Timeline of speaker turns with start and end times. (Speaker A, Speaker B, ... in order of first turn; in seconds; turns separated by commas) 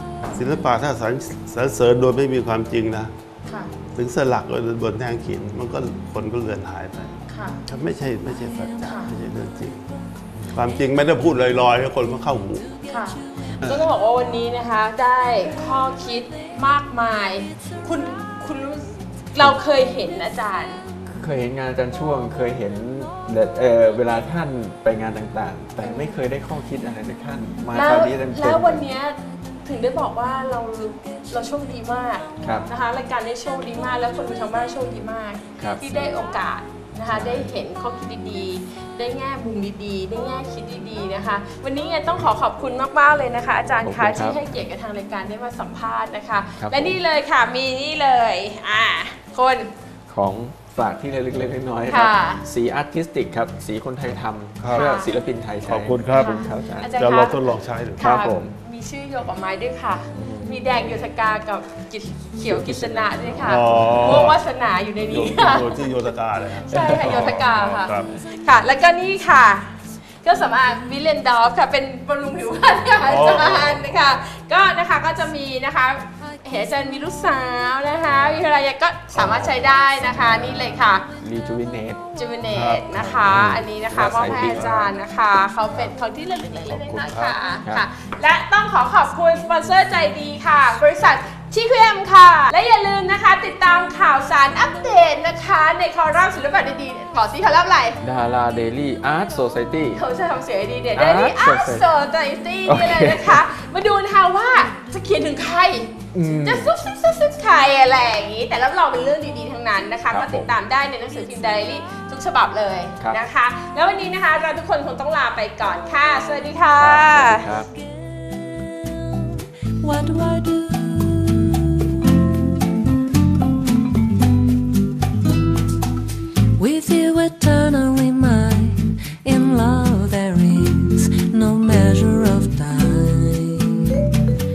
Speaker A: 0.3-3.1, Speaker B: 3.5-3.7, Speaker A: 3.9-9.8, Speaker B: 7.3-7.6, Speaker B: 8.8-9.1, Speaker A: 10.5-12.7, Speaker B: 12.9-20.8, Speaker A: 13.6-13.8, Speaker C: 21.1-28.9, Speaker B: 25.8-26.2, Speaker B: 27.7-49.7, Speaker C: 32.4-32.7, Speaker C: 35.6-36.1, Speaker C: 37.1-37.5, Speaker C: 43.8-44.5, Speaker C: 46.6-47.0, Speaker C: 50.1-56.9, Speaker B: 51.9-52.4, Speaker A: 54.6-54.9, Speaker B: 54.7-55.1, Speaker A: 55.6-56.4, Speaker B: 56.1-57.4, Speaker A: 57.0-58.1, Speaker B: 58.0-65.9, Speaker C: 58.0-58.5, Speaker C: 60.1-60.9, Speaker C: 62.5-64.2, Speaker A: 63.4-64.4, Speaker A: 65.1-68.1, Speaker B: 66.6-81.0, Speaker C: 66.8-67.4, Speaker A: 73.0-73.9, Speaker A: 79.1-80.6, Speaker C: 80.6-82.0, Speaker B: 82.2-98.0, Speaker A: 82.5-84.9, Speaker C: 83.2-84.8, Speaker A: 85.7-86.0, Speaker A: 86.6-87.4, Speaker C: 98.0-100.0, Speaker B: 99.9-117.5, Speaker C: 100.9-101.9, Speaker C: 102.7-103.4, Speaker C: 106.1-106.7, Speaker C: 110.1-110.5, Speaker C: 116.8-117.7, Speaker D: 118.3-122.0, Speaker D: 126.6-134.2